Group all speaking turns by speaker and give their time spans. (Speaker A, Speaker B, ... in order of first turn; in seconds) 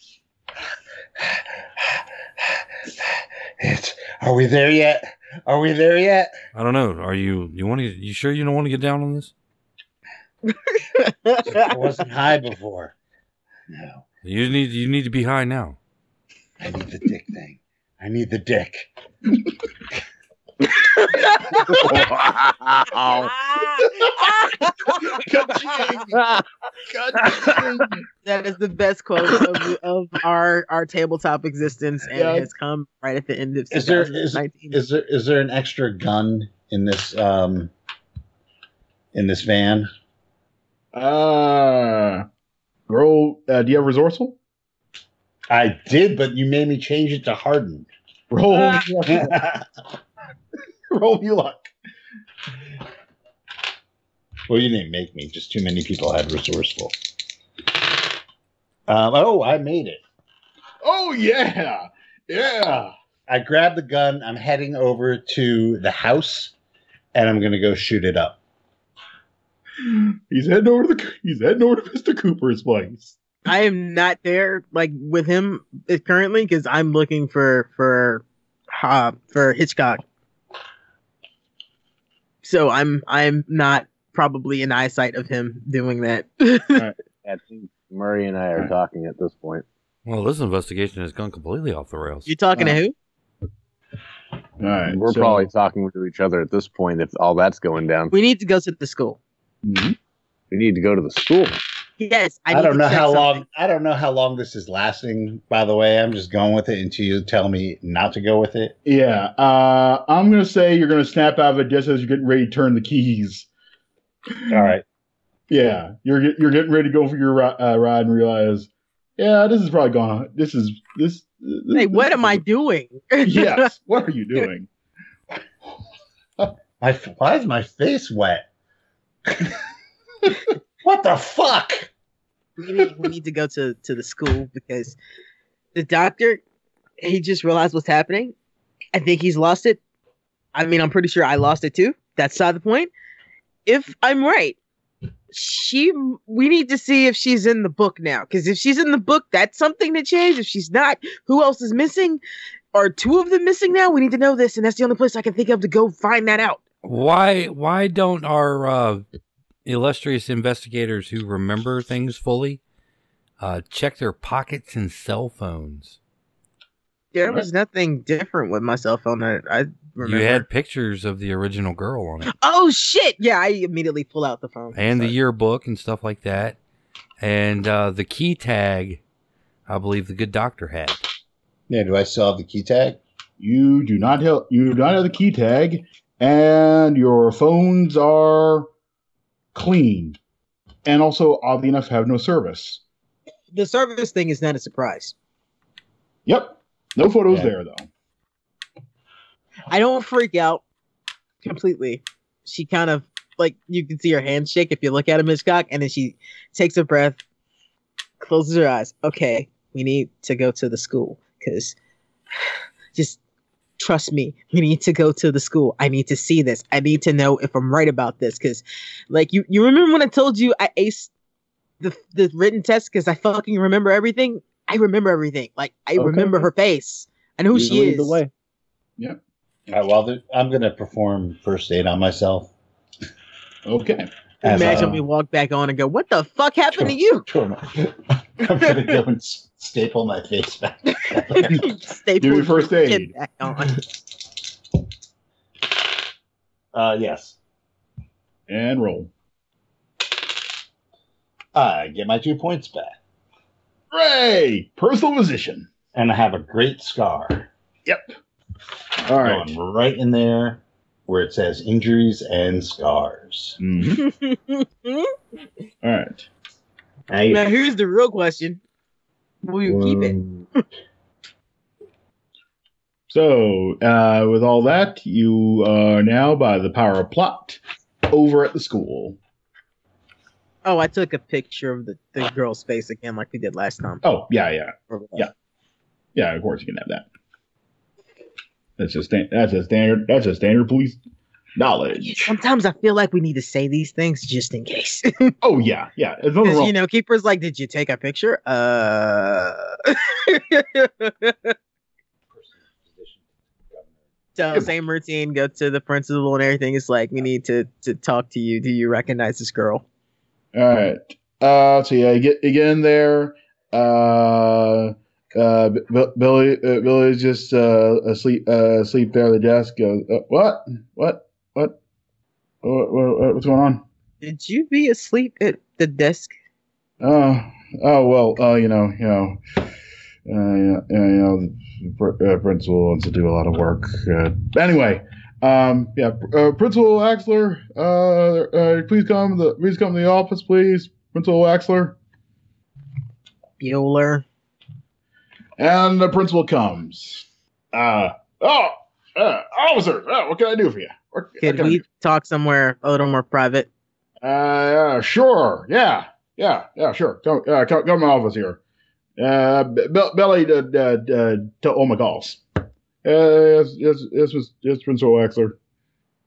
Speaker A: 1.2-6.3, 11.4-12.9, 13.7-14.1, 16.6-18.9, 33.7-37.7, 39.1-39.9, 45.5-47.9, 48.5-49.7, 54.5-56.9, 58.9-60.0, 63.3-66.5, 67.1-68.4, 102.5-108.8, 114.5-114.8, 126.8-128.5, 129.3-129.6, 130.8-131.9, 181.7-183.0, 227.5-228.3, 229.7-232.5, 234.4-235.0, 236.7-241.7, 246.7-247.4, 251.6-253.0, 255.9-257.5, 259.1-263.6, 267.1-267.5, 269.7-270.4, 302.3-304.0
Speaker B: 6.5-9.3, 14.2-15.8, 90.0-92.3, 156.8-159.1, 159.7-162.6, 163.4-166.0, 170.0-172.3, 174.7-176.6, 177.2-179.0, 179.7-181.0
Speaker C: 10.5-11.7, 23.1-25.0, 28.2-34.8, 73.5-80.0, 82.4-86.9, 92.3-92.9, 98.1-99.2, 102.0-103.4, 121.8-123.7, 132.6-135.0, 135.7-136.4, 137.0-138.3, 138.9-139.8, 140.6-142.9, 143.7-144.6, 145.3-152.2, 152.7-156.6, 167.1-170.4, 172.3-175.1, 193.5-195.1, 199.7-200.6, 201.4-207.2, 208.2-211.8, 213.8-221.1, 221.8-228.2, 234.4-237.2, 240.9-243.8, 264.0-265.1, 267.3-268.6, 269.4-270.6, 280.6-284.0, 292.0-295.4, 296.4-301.6, 304.4-309.8, 324.2-326.3, 343.6-344.2, 351.4-353.7
Speaker D: 21.7-22.1, 24.9-28.0, 32.1-32.5, 40.9-42.2, 42.9-44.4, 48.3-49.4, 50.9-51.7, 60.8-62.9, 69.8-73.2, 92.5-92.8, 94.6-95.5, 99.6-100.0, 108.8-113.5, 115.5-122.4, 123.2-124.7, 183.4-188.7, 189.5-190.2, 190.8-192.8, 196.3-197.9, 233.7-234.1, 234.6-235.0, 242.2-243.1, 248.5-249.1, 253.9-255.7, 257.9-258.1, 259.1-259.6, 263.6-264.1, 265.8-266.3, 273.1-279.2, 284.0-285.3, 286.1-287.1, 288.8-291.0, 291.6-292.3, 295.4-296.8, 310.5-321.8, 322.6-323.9, 327.0-329.4, 330.3-342.0, 345.6-351.8, 354.2-358.6, 359.2-362.4, 363.0-365.6
Speaker E: 22.0-23.3, 87.2-89.7, 94.9-98.1, 100.5-101.6